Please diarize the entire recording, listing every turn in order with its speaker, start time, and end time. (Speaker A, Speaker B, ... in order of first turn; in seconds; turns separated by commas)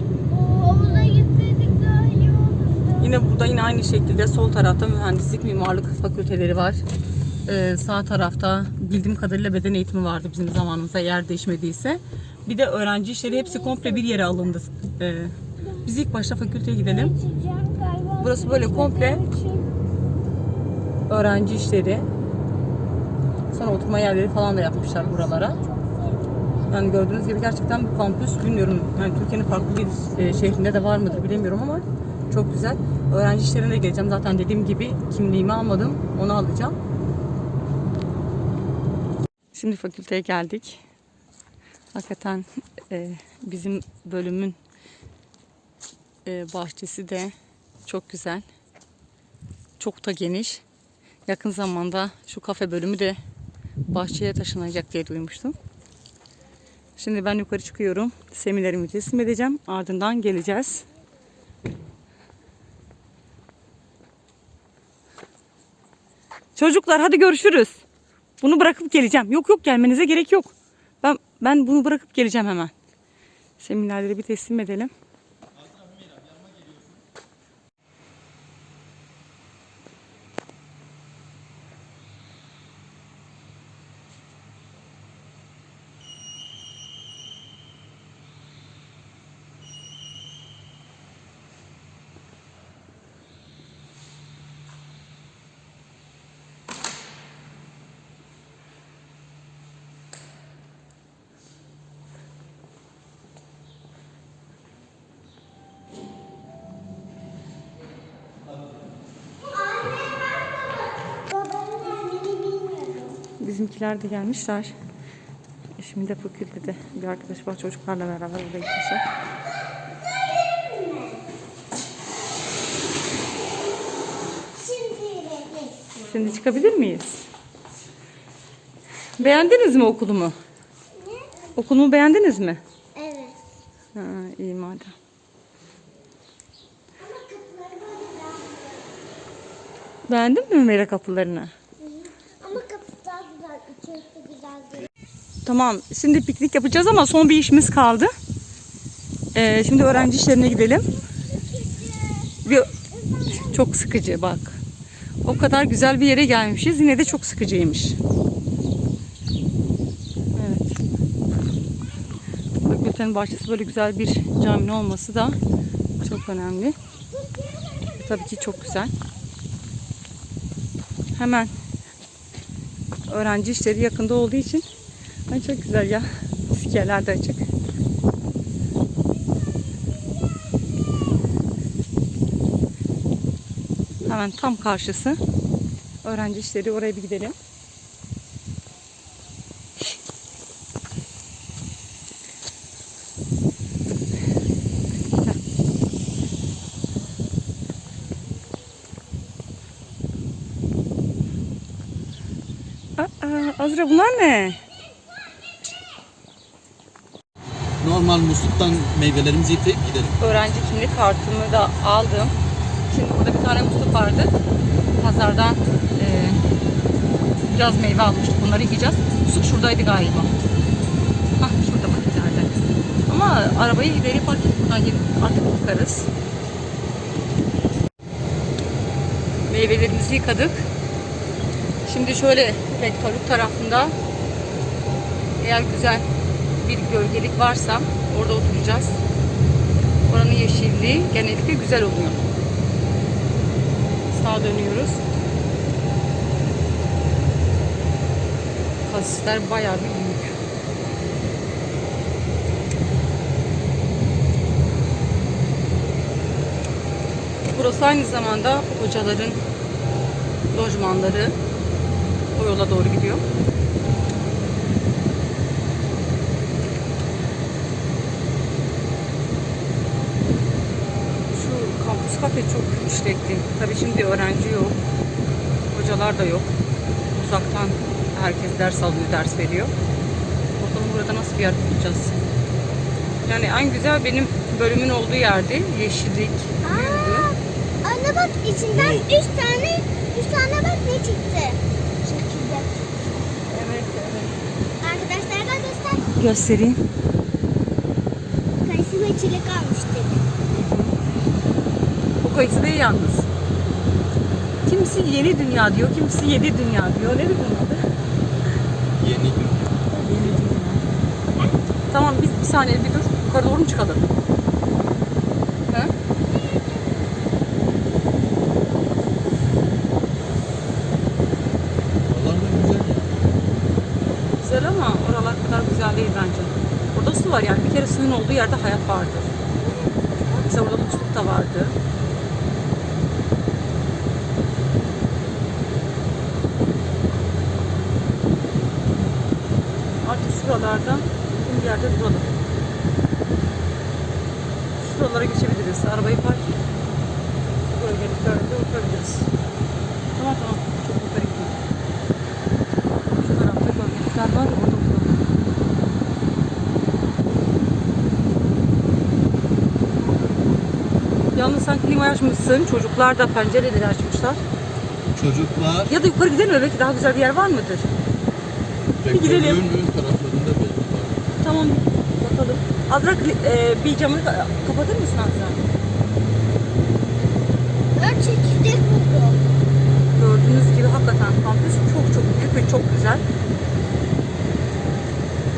Speaker A: 0.3-3.3, Speaker B: 3.0-6.8, Speaker B: 7.5-17.1, Speaker A: 13.2-14.4, Speaker A: 16.8-19.7, Speaker B: 18.2-19.2, Speaker B: 21.1-22.1, Speaker B: 23.5-25.6, Speaker A: 23.6-23.9, Speaker A: 24.5-26.7, Speaker B: 26.7-36.8, Speaker A: 29.8-31.5, Speaker B: 39.5-40.8, Speaker B: 41.9-44.6, Speaker B: 46.2-47.3, Speaker B: 47.8-48.4, Speaker B: 49.8-50.6, Speaker B: 51.2-53.2, Speaker B: 53.9-55.6, Speaker B: 57.0-60.9, Speaker B: 66.5-67.8, Speaker B: 68.4-72.7, Speaker B: 73.6-74.9, Speaker A: 111.1-113.2, Speaker B: 113.4-114.8, Speaker B: 115.8-119.0, Speaker A: 120.3-121.3, Speaker A: 124.6-126.0, Speaker B: 126.0-127.2, Speaker B: 129.2-130.3, Speaker A: 130.9-131.3, Speaker B: 131.6-132.6, Speaker A: 132.9-133.4, Speaker B: 133.9-134.9, Speaker A: 137.0-138.9, Speaker B: 140.1-141.5, Speaker A: 141.8-144.9, Speaker B: 145.4-148.1, Speaker B: 149.3-150.8, Speaker A: 151.3-153.5, Speaker B: 152.4-152.8, Speaker B: 153.3-154.6, Speaker B: 155.2-158.0, Speaker B: 160.3-160.8, Speaker B: 162.7-165.4, Speaker B: 166.0-166.8, Speaker A: 167.2-168.8, Speaker B: 167.9-168.9, Speaker B: 171.2-171.5, Speaker B: 173.1-174.7, Speaker B: 175.3-177.4, Speaker B: 184.1-185.2, Speaker B: 186.0-187.3, Speaker B: 203.0-204.6, Speaker C: 207.8-210.2, Speaker B: 210.2-212.3, Speaker B: 212.9-214.3, Speaker B: 215.0-216.4, Speaker B: 217.5-220.3, Speaker B: 221.4-222.5, Speaker B: 223.1-226.1, Speaker B: 229.5-230.7, Speaker B: 231.8-233.9, Speaker B: 235.4-236.1, Speaker B: 236.6-239.0, Speaker B: 240.1-242.2, Speaker B: 244.1-245.0, Speaker B: 248.8-250.3, Speaker B: 257.5-259.4, Speaker B: 260.5-261.4, Speaker B: 262.3-263.2, Speaker B: 271.3-274.8, Speaker B: 275.7-276.5, Speaker B: 277.2-279.7, Speaker B: 280.6-282.2, Speaker B: 283.2-287.3, Speaker A: 286.6-293.1, Speaker C: 288.8-289.1, Speaker B: 293.5-294.4, Speaker A: 294.8-296.1, Speaker B: 296.2-296.8, Speaker A: 298.6-300.2, Speaker B: 300.5-300.9, Speaker B: 302.2-303.3, Speaker B: 304.6-307.8, Speaker C: 308.9-309.8, Speaker A: 309.9-310.4, Speaker B: 310.0-310.8, Speaker B: 311.9-314.1, Speaker A: 316.3-317.2, Speaker C: 322.1-323.0, Speaker B: 324.4-329.4, Speaker A: 329.6-330.2, Speaker B: 330.2-331.8, Speaker B: 340.0-342.3, Speaker B: 344.8-346.6, Speaker B: 347.7-349.3, Speaker B: 350.1-351.6, Speaker B: 353.2-355.2, Speaker B: 361.3-364.4, Speaker C: 365.1-365.9, Speaker B: 365.9-367.9, Speaker C: 369.0-371.3, Speaker B: 369.1-369.6, Speaker B: 371.4-375.6, Speaker A: 377.9-379.4, Speaker B: 380.1-383.2